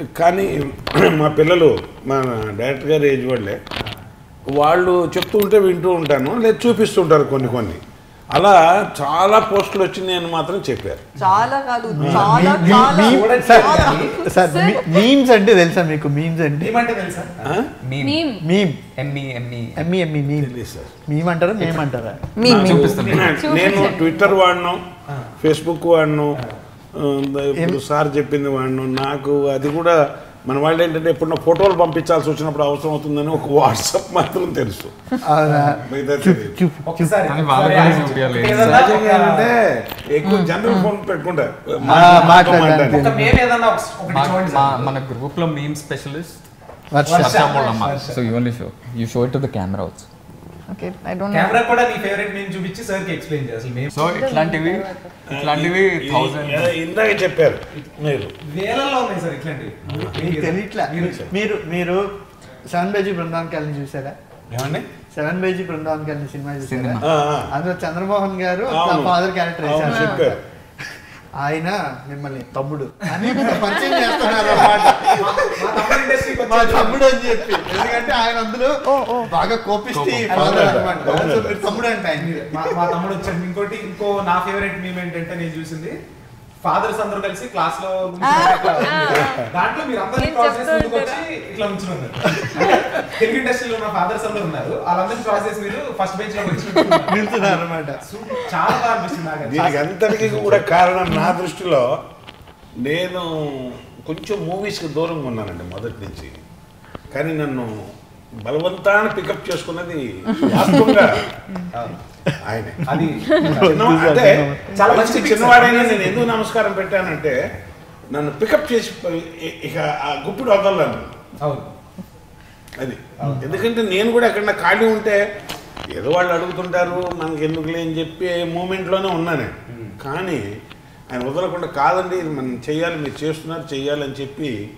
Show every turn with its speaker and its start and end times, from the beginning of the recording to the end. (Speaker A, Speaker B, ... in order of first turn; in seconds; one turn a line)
Speaker A: 0.2-3.6
Speaker A: 4.5-7.8
Speaker A: 8.3-11.0
Speaker B: 11.2-15.1
Speaker C: 12.0-16.7
Speaker A: 12.0-12.5
Speaker D: 12.1-14.2
Speaker D: 16.6-17.5
Speaker A: 17.4-17.7
Speaker E: 17.8-18.3
Speaker B: 18.0-18.4
Speaker C: 18.4-18.8
Speaker E: 19.0-19.9
Speaker C: 19.8-20.5
Speaker A: 20.4-20.9
Speaker C: 21.1-22.2
Speaker B: 22.4-24.3
Speaker A: 22.4-24.9
Speaker E: 22.4-23.5
Speaker D: 22.5-23.3
Speaker D: 25.1-25.3
Speaker A: 25.4-26.4
Speaker A: 26.9-34.9
Speaker C: 35.2-37.2
Speaker D: 35.5-35.8
Speaker A: 35.8-36.6
Speaker D: 36.9-39.5
Speaker E: 37.3-38.9
Speaker A: 38.6-43.0
Speaker B: 40.2-40.9
Speaker D: 41.8-45.0
Speaker C: 41.8-43.4
Speaker E: 44.1-46.4
Speaker C: 46.9-47.5
Speaker D: 47.1-48.2
Speaker E: 47.1-50.1
Speaker B: 50.7-51.6
Speaker D: 51.3-54.1
Speaker E: 53.9-56.8
Speaker B: 54.1-55.1
Speaker A: 55.3-58.3
Speaker D: 58.4-61.2
Speaker A: 59.9-60.2
Speaker C: 60.2-62.0
Speaker A: 61.0-61.3
Speaker C: 62.7-64.2
Speaker A: 64.5-64.8
Speaker C: 65.1-70.4
Speaker E: 66.6-67.2
Speaker A: 67.0-67.5
Speaker A: 68.7-70.4
Speaker B: 69.8-70.3
Speaker C: 71.4-75.9
Speaker B: 73.3-74.3
Speaker A: 74.4-75.2
Speaker D: 74.5-77.1
Speaker C: 76.4-82.8
Speaker B: 78.9-79.3
Speaker E: 79.9-80.8
Speaker A: 80.3-81.6
Speaker D: 80.6-86.0
Speaker D: 86.6-99.9
Speaker B: 88.2-89.5
Speaker A: 89.1-89.4
Speaker B: 90.2-91.2
Speaker C: 97.1-98.0
Speaker A: 99.5-101.9
Speaker A: 102.8-106.4
Speaker A: 107.1-107.9
Speaker A: 108.4-111.3
Speaker D: 111.7-112.0
Speaker A: 112.4-112.9
Speaker D: 112.9-113.8
Speaker C: 113.3-115.0
Speaker A: 113.4-117.4
Speaker D: 114.8-116.3
Speaker A: 118.1-121.2
Speaker D: 121.4-121.7
Speaker A: 122.8-125.2
Speaker D: 123.2-123.6
Speaker A: 125.9-130.4
Speaker D: 129.7-130.0
Speaker A: 131.1-134.6